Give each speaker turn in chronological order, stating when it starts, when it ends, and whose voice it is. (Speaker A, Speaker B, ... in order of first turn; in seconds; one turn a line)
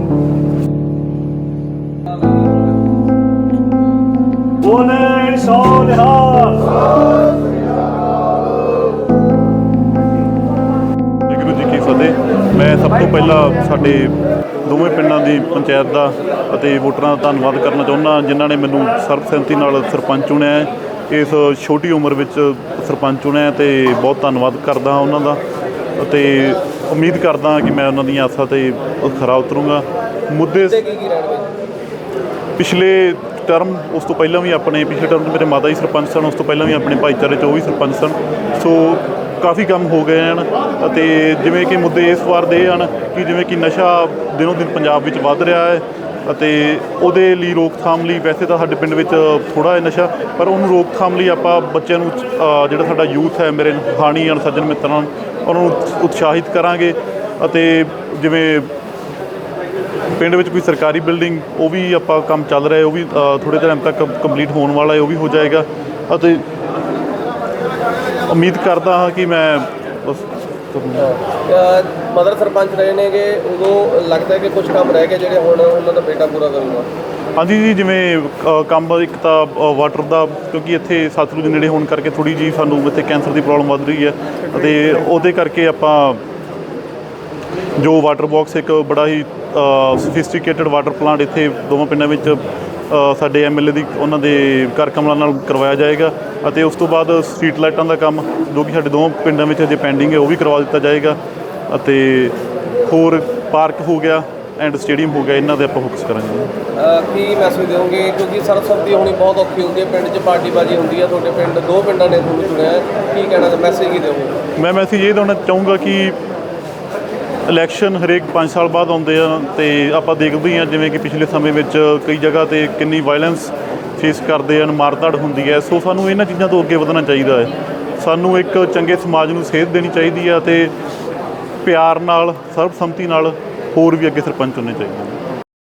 Speaker A: 4.6-6.7
Speaker B: 11.3-25.4
Speaker B: 26.0-30.8
Speaker C: 30.6-31.5
Speaker B: 32.6-58.7
Speaker B: 60.2-66.5
Speaker B: 68.3-71.1
Speaker C: 71.0-76.9
Speaker B: 77.4-86.2
Speaker B: 87.8-101.2
Speaker B: 101.7-106.5
Speaker C: 106.8-114.3
Speaker B: 114.6-116.2
Speaker B: 117.5-130.7
Speaker B: 131.6-135.2